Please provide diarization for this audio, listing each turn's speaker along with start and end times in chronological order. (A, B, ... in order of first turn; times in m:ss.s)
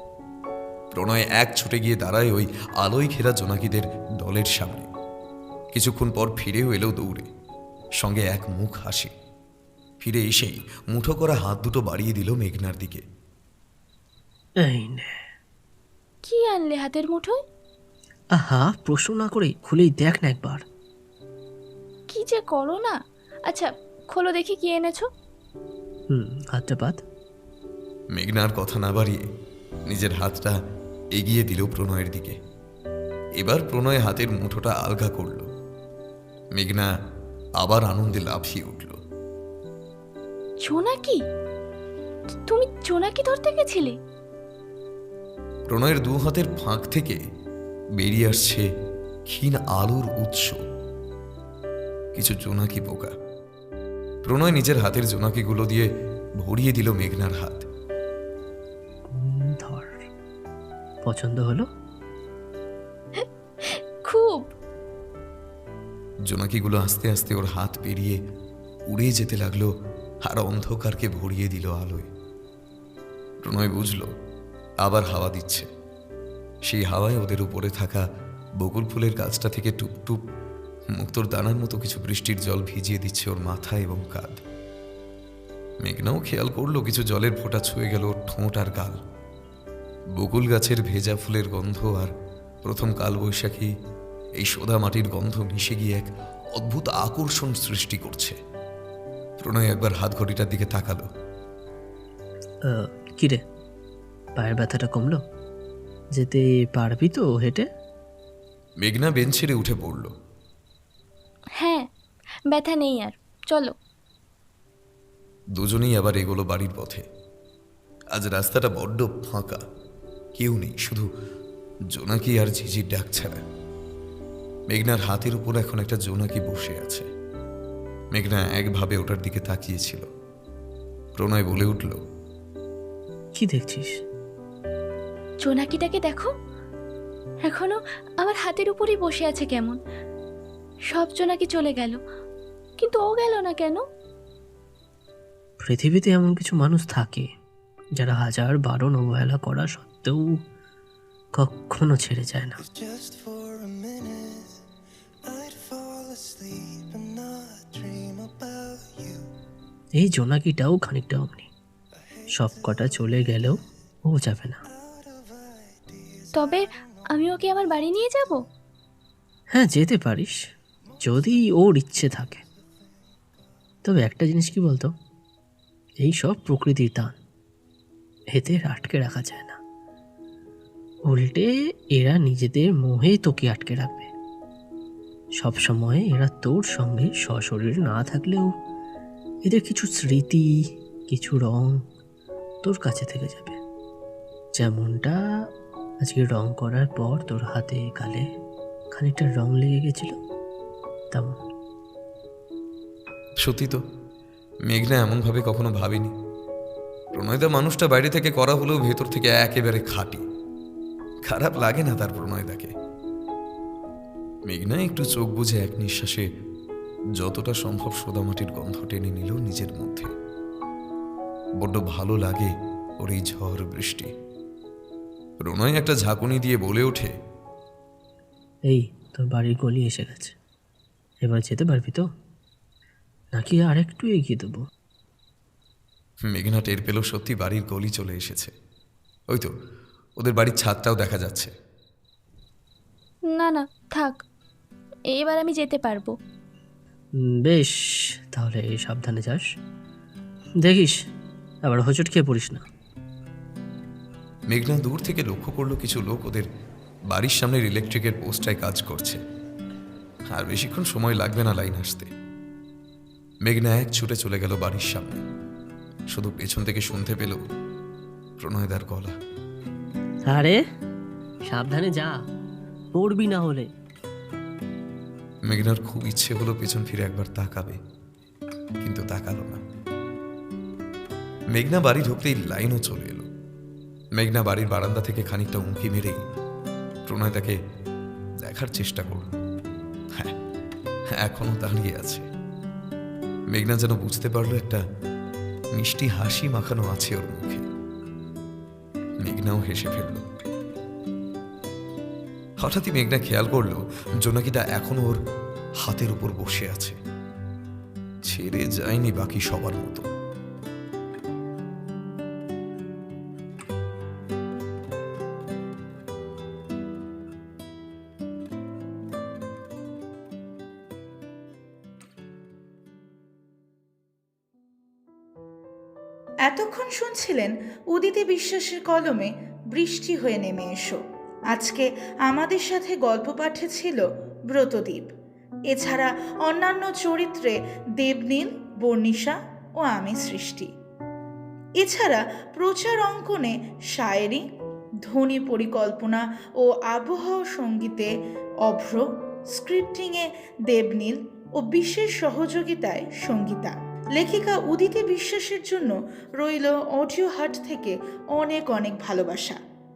0:00.9-0:04.9 A
0:05.7-0:07.3 A
0:08.0-0:09.1 A
0:10.0-0:13.0 A
0:14.6-0:15.2 B
0:16.2-0:17.4 C
0:18.3-0:20.6 B
0:22.1-0:23.0 C
0:23.5-0:25.1 C
0:26.1-0:27.0 B
0:28.1-0:29.2 A
0:29.9-0:30.6 A
0:31.1-0:32.4 A
0:33.4-0:35.5 A
0:36.6-0:36.9 A
0:37.6-0:39.0 A
0:40.6-0:41.2 C
0:42.4-0:44.0 C
0:45.7-0:47.2 A
0:48.0-0:48.7 A
0:49.3-0:50.6 A
0:52.2-0:53.1 A
0:54.2-0:55.9 A
0:56.4-0:57.6 A
0:59.1-1:00.0 B
1:01.0-1:01.7 B
1:03.2-1:04.5 C
1:06.3-1:08.2 A
1:08.9-1:09.7 A
1:10.2-1:12.1 A
1:13.4-1:14.1 A
1:14.8-1:15.7 A
1:16.6-1:18.1 A
1:18.6-1:20.2 A
1:20.9-1:24.4 A
1:25.8-1:29.0 A
1:30.1-1:32.1 A
1:32.6-1:33.7 A
1:34.4-1:38.4 A
1:39.4-1:41.1 A
1:42.6-1:43.4 B
1:44.4-1:45.2 B
1:46.1-1:47.7 B
1:48.8-1:50.1 A
1:51.6-1:51.8 C
1:52.5-1:53.7 C
1:55.6-1:57.0 A
1:58.1-1:59.6 A
2:00.4-2:01.0 A
2:01.9-2:03.4 A
2:04.7-2:07.1 A
2:08.1-2:10.1 A
2:11.2-2:12.0 A
2:13.4-2:13.9 B
2:15.4-2:16.3 C
2:17.5-2:19.8 C
2:20.9-2:22.0 C
2:22.8-2:23.8 C
2:25.6-2:27.3 B
2:28.0-2:30.4 B
2:31.3-2:32.7 B
2:40.0-2:41.5 B
2:42.3-2:44.6 B
2:46.3-2:48.4 C
2:49.5-2:50.4 B
2:51.0-2:52.4 B
2:53.8-2:54.9 B
2:56.0-2:57.2 B
2:58.3-2:59.6 B
3:01.0-3:04.1 B
3:05.4-3:08.5 B
3:09.4-3:11.8 B
3:12.6-3:13.6 B
3:14.5-3:15.5 B
3:16.0-3:18.3 B
3:18.9-3:20.2 B
3:21.1-3:21.4 B
3:23.4-3:23.8 A
3:24.7-3:26.1 A
3:27.1-3:30.2 A
3:31.2-3:32.7 A
3:34.5-3:36.3 A
3:37.2-3:40.1 A
3:41.6-3:44.1 A
3:45.4-3:47.1 A
3:48.7-3:50.3 B
3:51.2-3:52.0 B
3:53.3-3:54.6 B
3:56.3-3:58.5 A
4:00.2-4:01.5 A
4:03.3-4:04.2 C
4:05.1-4:06.1 C
4:07.2-4:09.4 B
4:10.6-4:11.0 B
4:11.6-4:12.6 B
4:14.5-4:16.5 A
4:17.1-4:19.2 A
4:20.3-4:22.1 A
4:23.4-4:25.2 A
4:26.1-4:27.4 A
4:28.4-4:29.2 A
4:30.3-4:30.6 B
4:31.4-4:32.2 B
4:32.9-4:33.7 B
4:35.5-4:37.8 A
4:38.8-4:39.6 A
4:41.5-4:43.3 A
4:44.2-4:46.3 A
4:47.1-4:47.6 A
4:48.4-4:49.4 A
4:51.2-4:52.3 A
4:53.5-4:54.8 A
4:55.7-4:57.6 A
4:59.2-5:00.3 A
5:02.6-5:05.2 A
5:05.8-5:07.0 A
5:08.2-5:10.1 A
5:26.4-5:35.1 D
5:35.7-5:40.7 D
5:41.8-5:44.4 D
5:45.0-5:48.1 D
5:48.6-5:59.6 D